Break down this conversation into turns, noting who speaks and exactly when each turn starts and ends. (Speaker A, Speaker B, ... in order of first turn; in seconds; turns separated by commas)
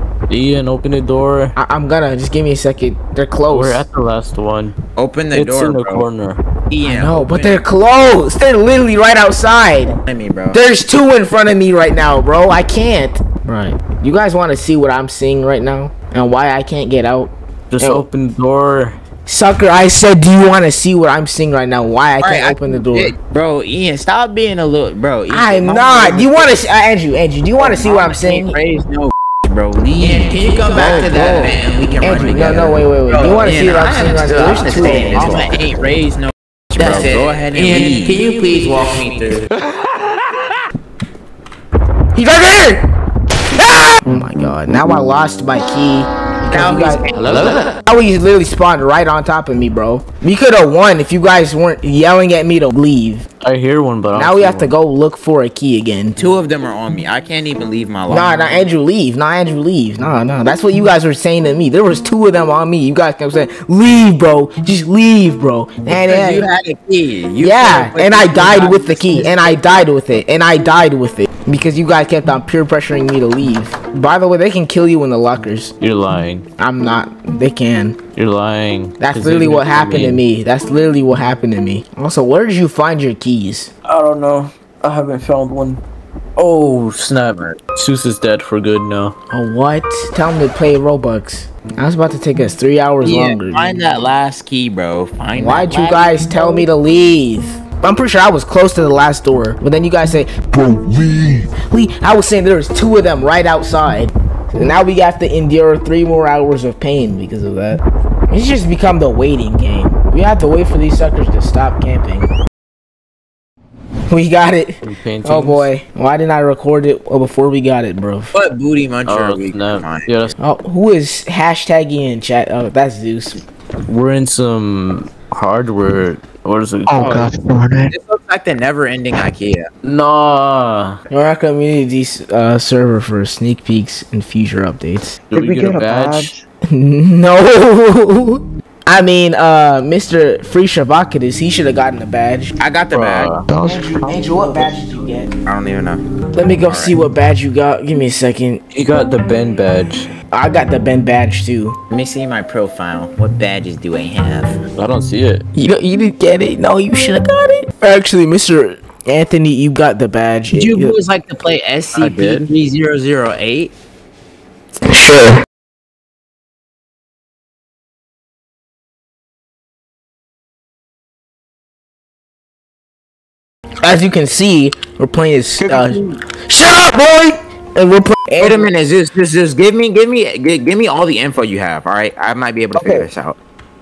Speaker A: 0.3-1.5, Speaker B: 1.6-3.9, Speaker A: 3.5-4.8, Speaker C: 5.0-6.0, Speaker A: 5.3-6.4, Speaker C: 6.7-7.7, Speaker B: 6.8-10.0, Speaker C: 10.1-10.6, Speaker B: 10.5-18.0, Speaker A: 17.7-19.0, Speaker B: 19.2-23.1, Speaker C: 22.2-26.5, Speaker B: 25.3-28.6, Speaker C: 27.6-39.5, Speaker B: 30.0-35.6, Speaker B: 36.8-37.1, Speaker A: 37.6-38.0, Speaker B: 42.1-42.9, Speaker B: 43.5-47.0, Speaker C: 46.5-47.7, Speaker A: 47.1-47.7, Speaker B: 47.9-53.2, Speaker A: 53.4-54.7, Speaker B: 54.1-56.1, Speaker C: 56.1-58.6, Speaker B: 58.1-66.5, Speaker C: 65.9-69.6, Speaker B: 67.4-75.7, Speaker A: 75.8-76.5, Speaker B: 76.6-78.0, Speaker A: 78.1-80.2, Speaker B: 79.0-83.7, Speaker A: 83.8-85.8, Speaker A: 86.3-89.2, Speaker B: 89.3-93.8, Speaker C: 93.0-96.6, Speaker B: 95.3-112.3, Speaker B: 114.1-118.3, Speaker A: 114.8-115.7, Speaker C: 118.3-120.1, Speaker A: 119.0-120.3, Speaker B: 120.4-123.4, Speaker A: 123.9-127.3, Speaker D: 126.9-127.9, Speaker C: 127.9-129.7, Speaker A: 129.8-131.0, Speaker B: 131.1-135.2, Speaker D: 135.3-136.4, Speaker A: 135.3-136.3, Speaker B: 136.7-142.5, Speaker C: 142.6-143.3, Speaker A: 142.9-143.5, Speaker D: 143.5-144.7, Speaker B: 143.6-145.3, Speaker C: 145.4-146.0, Speaker B: 146.3-148.6, Speaker C: 146.7-147.0, Speaker A: 148.7-150.1, Speaker B: 150.3-151.8, Speaker C: 151.9-154.6, Speaker A: 154.7-155.4, Speaker B: 155.5-160.9, Speaker C: 160.5-163.7, Speaker A: 161.9-162.5, Speaker B: 164.8-165.4, Speaker B: 173.8-178.7, Speaker D: 175.6-176.2, Speaker C: 178.4-183.4, Speaker D: 182.7-183.1